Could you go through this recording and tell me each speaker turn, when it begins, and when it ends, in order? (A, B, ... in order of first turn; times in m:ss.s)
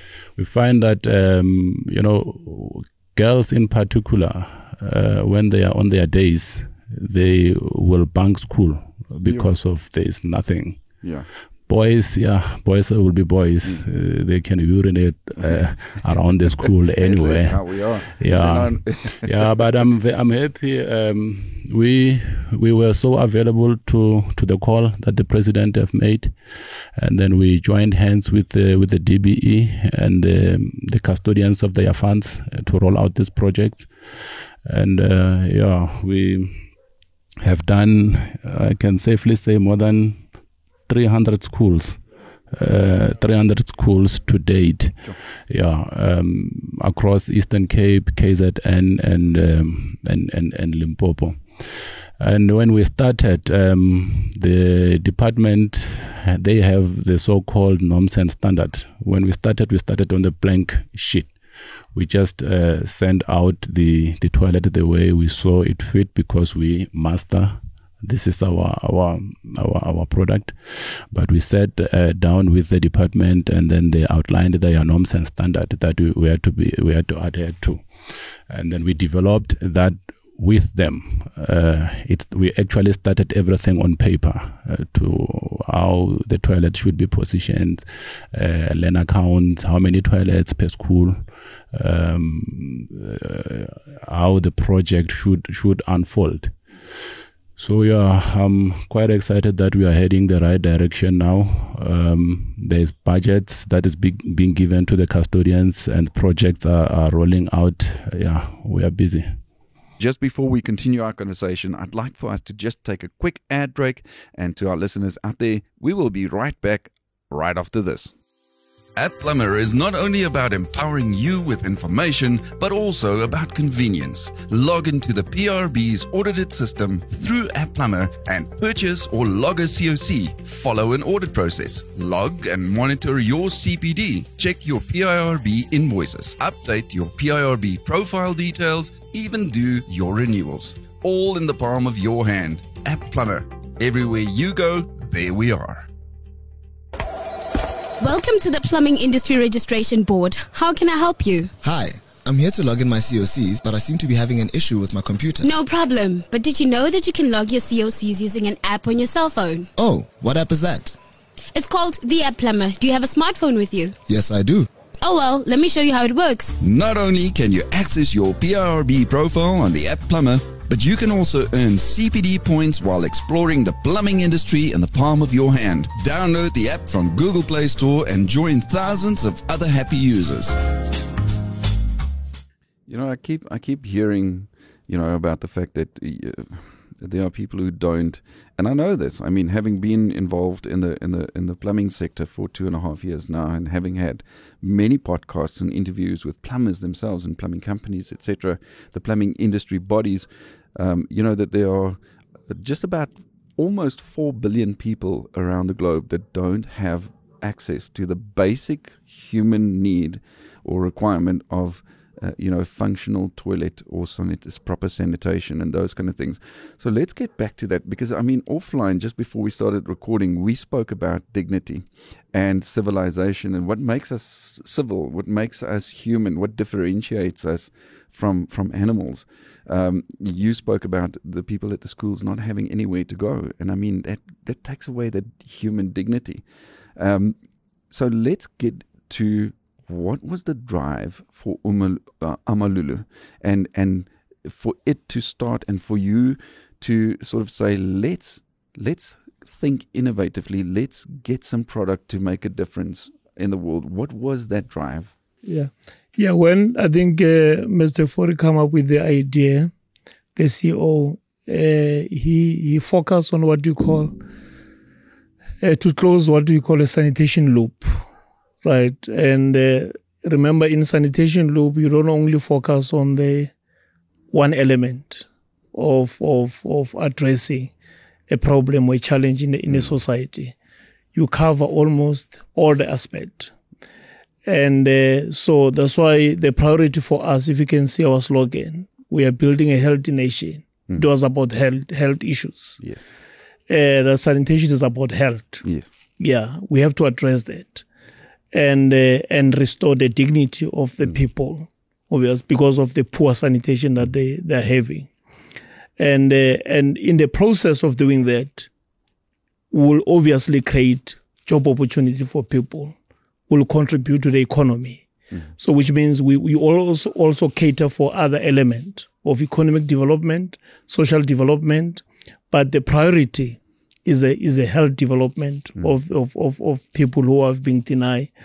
0:00.4-0:10.8 A
0:09.2-0:09.5 B
0:11.0-0:11.3 B
0:11.7-0:17.6 A
0:17.0-0:19.5 B
0:18.2-0:26.4 A
0:27.0-0:33.9 A
0:34.6-0:36.7 A
0:37.4-0:40.2 A
0:40.9-1:01.4 A
1:01.9-1:36.6 A
1:37.6-1:49.4 A
1:50.0-1:58.1 B
1:59.0-2:25.9 B
2:28.0-2:31.5 C
2:31.6-2:35.5 D
2:35.4-2:39.7 C
2:39.8-2:41.0 D
2:41.5-2:44.0 C
2:44.1-2:44.7 D
2:45.0-2:46.6 C
2:46.6-3:00.6 B
3:02.9-3:57.4 B
3:57.9-4:15.1 B
4:15.4-4:19.7 E
4:20.4-4:24.2 E
4:25.6-4:28.0 E
4:28.6-4:33.5 E
4:34.3-4:37.7 E
4:38.3-4:40.6 E
4:41.1-4:43.5 E
4:44.5-4:52.8 E
4:52.8-4:53.1 B
4:53.7-4:55.7 E
4:56.2-4:57.8 E
4:58.5-5:05.1 E
5:06.0-5:08.7 E
5:09.7-5:13.0 E
5:13.5-5:28.3 E